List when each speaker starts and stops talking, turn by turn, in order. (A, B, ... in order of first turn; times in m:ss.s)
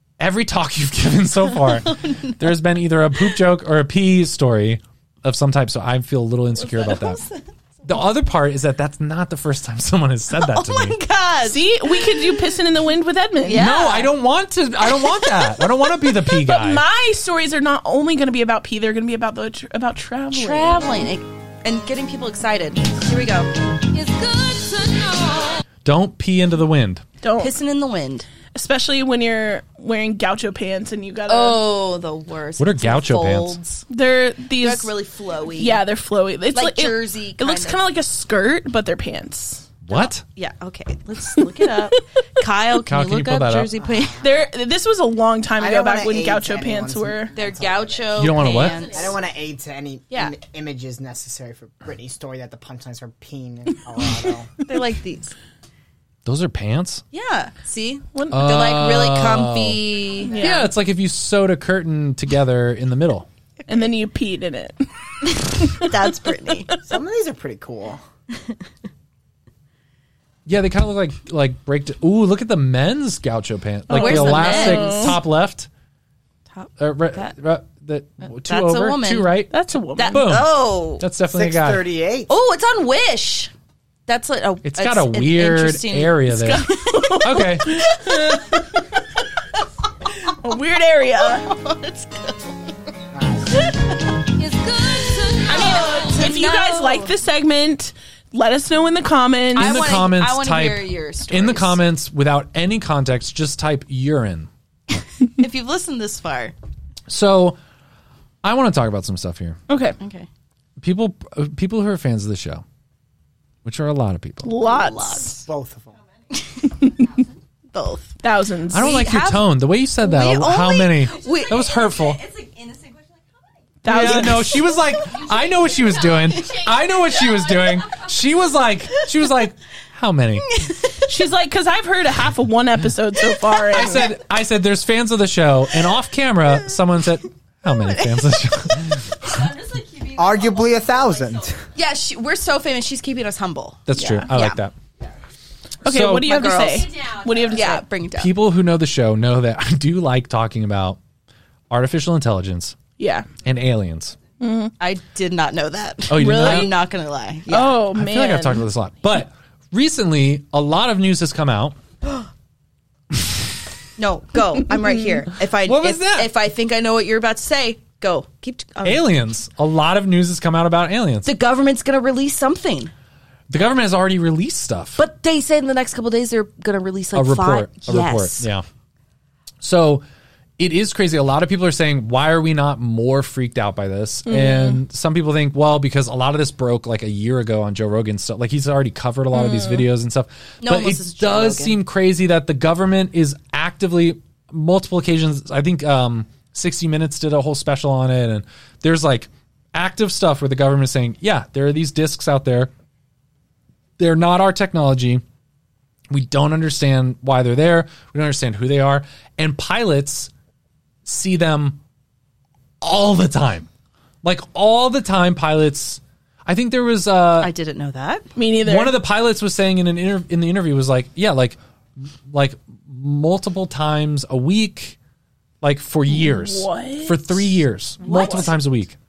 0:00.2-0:07.2 A
0:01.6-0:02.3 B
0:06.6-0:07.4 B
0:07.8-0:11.0 A
0:10.3-0:12.3 B
0:11.4-0:13.8 C
0:13.4-0:14.1 B
0:13.5-0:16.8 A
0:14.8-0:16.1 B
0:16.4-0:20.8 C
0:20.3-0:25.6 B
0:25.8-0:27.0 A
0:27.2-0:27.6 C
0:27.4-0:28.3 B
0:28.5-0:31.6 C
0:31.3-0:33.8 B
0:32.6-0:33.6 A
0:33.9-0:34.9 C
0:34.6-0:35.8 B
0:35.5-0:39.7 C
0:36.5-0:37.8 B
0:39.8-0:40.2 A
0:39.9-0:44.2 B
0:41.3-0:41.9 C
0:42.8-0:43.7 A
0:43.8-0:44.2 D
0:44.2-0:47.3 C
0:45.6-0:48.4 D
0:47.3-0:49.2 B
0:48.1-0:48.8 A
0:48.7-0:49.1 E
0:48.9-0:54.5 D
0:54.6-0:55.3 B
0:56.2-0:57.0 A
0:57.1-1:00.7 B
0:58.1-0:58.6 C
0:58.3-0:59.8 A
1:00.2-1:00.7 C
1:00.4-1:03.3 A
1:03.6-1:03.9 B
1:03.7-1:06.8 C
1:05.2-1:06.7 B
1:06.8-1:08.0 D
1:10.4-1:15.7 A
1:13.9-1:15.2 C
1:13.9-1:15.2 B
1:16.5-1:17.3 B
1:16.8-1:21.8 A
1:18.4-1:19.4 B
1:19.5-1:20.2 C
1:19.9-1:21.0 B
1:21.3-1:22.3 D
1:22.3-1:23.5 B
1:24.1-1:28.5 B
1:24.6-1:26.7 A
1:26.3-1:28.7 C
1:27.2-1:27.8 A
1:30.3-1:31.5 C
1:31.2-1:32.7 B
1:33.1-1:33.5 D
1:33.6-1:37.1 B
1:35.5-1:39.8 C
1:39.5-1:41.8 B
1:39.6-1:44.5 A
1:45.4-1:46.5 B
1:47.1-1:47.6 A
1:48.4-1:49.6 A
1:49.7-1:50.0 C
1:50.0-1:50.3 B
1:50.8-1:52.6 A
1:53.6-1:54.5 A
1:54.4-1:55.4 C
1:54.6-1:55.5 B
1:55.5-1:55.9 D
1:56.3-1:57.2 E
1:57.7-1:58.2 B
1:58.2-1:58.9 C
1:58.7-2:02.2 A
1:58.8-1:59.4 B
2:00.0-2:01.6 B
2:01.1-2:03.8 E
2:03.8-2:04.6 C
2:03.8-2:10.6 A
2:04.8-2:08.5 E
2:10.4-2:11.1 B
2:11.0-2:14.1 C
2:13.7-2:19.2 A
2:17.7-2:18.2 B
2:19.2-2:21.6 E
2:20.2-2:21.6 D
2:21.7-2:24.6 B
2:23.9-2:24.7 A
2:24.0-2:24.2 C
2:25.8-2:26.4 A
2:25.8-2:27.8 C
2:26.2-2:27.0 B
2:26.5-2:27.8 E
2:27.5-2:28.3 B
2:28.2-2:31.0 A
2:31.7-2:32.8 A
2:33.0-2:33.3 C
2:33.4-2:34.2 A
2:34.4-2:34.7 C
2:34.8-2:37.8 B
2:36.1-2:36.7 A
2:36.1-2:36.8 C
2:37.5-2:38.6 C
2:37.9-2:41.8 A
2:44.0-2:49.0 B
2:45.6-2:46.3 A
2:48.8-2:51.3 A
2:51.2-2:52.9 B
2:53.5-2:55.0 A
2:55.0-2:58.5 B
2:57.1-2:58.6 A
2:59.6-3:00.0 A
3:00.6-3:22.7 A
3:04.2-3:04.8 C
3:09.3-3:09.8 C
3:10.6-3:11.8 B
3:24.0-3:25.2 A
3:26.1-3:30.3 A
3:31.0-3:31.8 A
3:32.8-3:33.7 A
3:34.2-3:37.5 A
3:37.4-3:38.3 B
3:38.4-3:38.9 C
3:38.6-3:41.6 A
3:42.2-3:45.0 A
3:45.6-3:49.0 A
3:46.1-3:47.5 C
3:48.0-3:48.5 B